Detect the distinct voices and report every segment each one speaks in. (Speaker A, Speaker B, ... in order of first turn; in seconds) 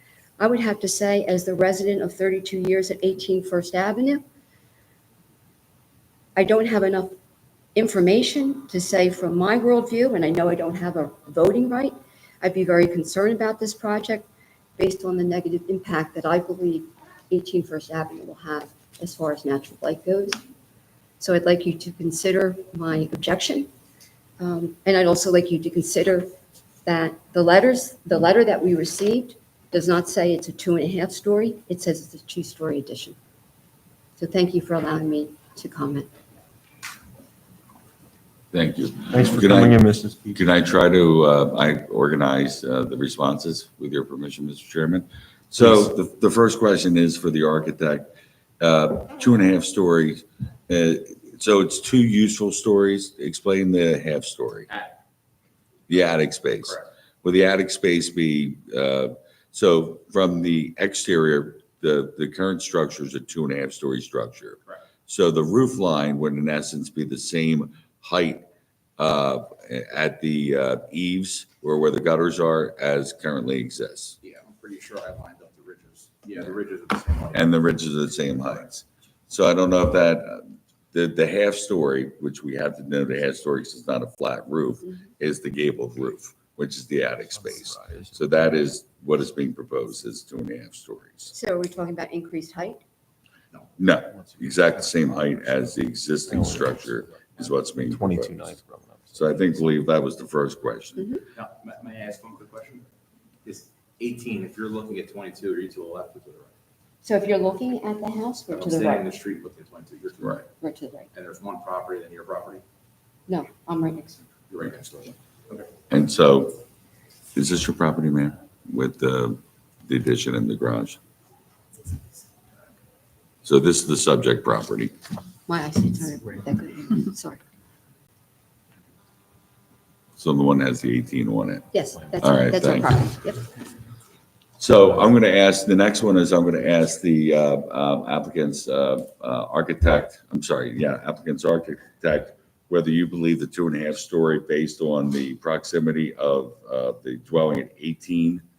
Speaker A: 0.4-4.2, 6.4-7.1, 7.8-20.4, 21.2-23.7, 24.4-26.3, 26.9-33.2, 34.2-36.1, 91.3-92.8, 101.0-101.2, 107.0-109.1, 110.6-111.1, 113.3-114.2, 125.5-127.4, 131.7-133.4
Speaker B: 38.5-39.8, 40.3-54.7, 55.9-68.5, 69.0-74.2, 77.3-91.3, 93.8-98.4, 99.1-101.1, 115.9-116.6, 117.3-121.0, 123.5-124.9, 130.2-131.7, 132.2-133.0, 134.6-148.4
Speaker C: 39.1-40.4, 87.4-88.2, 96.3-97.1, 97.8-99.6
Speaker D: 54.7-55.0, 55.9-56.9, 74.2-77.5, 101.3-102.9, 103.5-106.5, 108.5-110.5, 111.1-112.6, 114.5-115.7